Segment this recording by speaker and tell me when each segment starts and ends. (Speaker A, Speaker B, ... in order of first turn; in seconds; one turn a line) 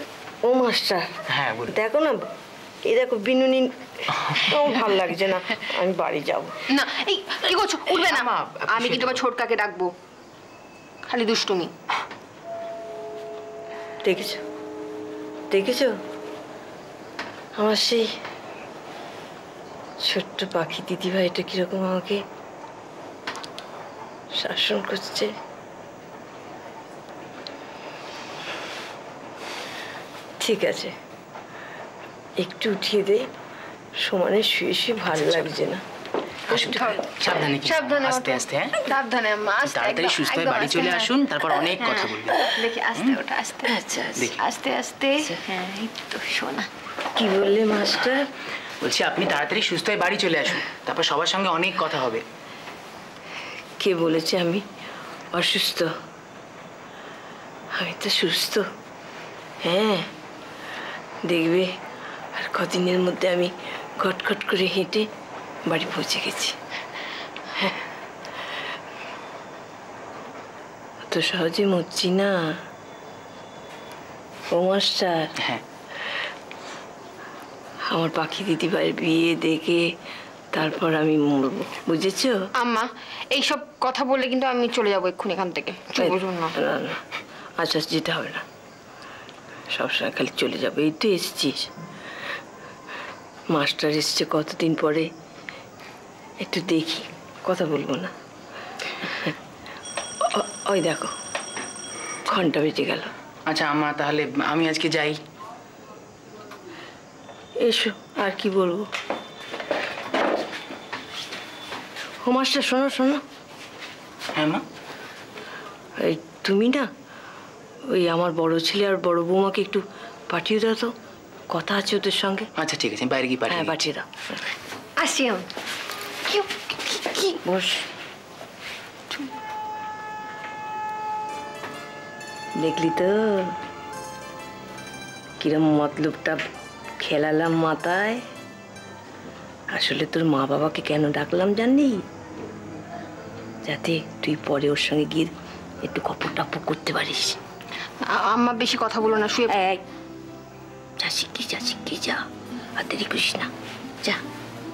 Speaker A: 0.4-1.1
Speaker B: 1.3-1.8
Speaker A: 1.7-2.3
Speaker A: 2.8-6.6
Speaker C: 6.7-9.9
Speaker B: 8.0-9.2
Speaker C: 11.1-11.7
Speaker A: 14.0-14.4
Speaker A: 15.5-15.9
Speaker A: 17.6-18.1
Speaker A: 20.0-22.2
Speaker A: 24.4-25.3
Speaker A: 30.4-30.9
Speaker A: 32.4-33.3
Speaker A: 34.0-35.8
Speaker B: 36.5-38.9
Speaker C: 36.5-41.1
Speaker B: 39.6-43.2
Speaker C: 41.7-46.7
Speaker B: 44.1-44.4
Speaker A: 47.1-48.2
Speaker B: 48.8-52.2
Speaker A: 53.8-54.6
Speaker A: 55.3-55.9
Speaker A: 57.8-58.7
Speaker A: 59.6-60.1
Speaker A: 61.2-61.7
Speaker A: 62.3-65.1
Speaker A: 65.7-66.6
Speaker A: 71.1-72.6
Speaker A: 74.5-75.3
Speaker B: 75.4-75.6
Speaker A: 77.9-79.9
Speaker A: 80.5-82.5
Speaker C: 82.6-86.6
Speaker A: 86.0-87.0
Speaker A: 87.6-88.5
Speaker A: 89.7-91.7
Speaker A: 93.5-95.1
Speaker A: 96.4-98.1
Speaker A: 99.0-99.3
Speaker A: 100.2-101.1
Speaker A: 102.2-103.1
Speaker B: 103.5-105.2
Speaker A: 107.6-108.9
Speaker A: 112.2-113.2
Speaker B: 114.3-114.6
Speaker A: 116.0-116.9
Speaker A: 117.9-120.9
Speaker A: 121.5-122.5
Speaker B: 122.6-123.8
Speaker A: 123.5-124.4
Speaker C: 125.0-125.5
Speaker C: 126.3-127.4
Speaker A: 127.4-127.8
Speaker A: 132.6-133.6
Speaker A: 135.4-136.4
Speaker A: 137.0-138.2
Speaker A: 139.7-142.0
Speaker A: 143.7-145.3
Speaker A: 145.8-147.4
Speaker C: 148.0-149.6
Speaker A: 149.5-149.8
Speaker A: 151.0-152.2
Speaker A: 152.8-153.5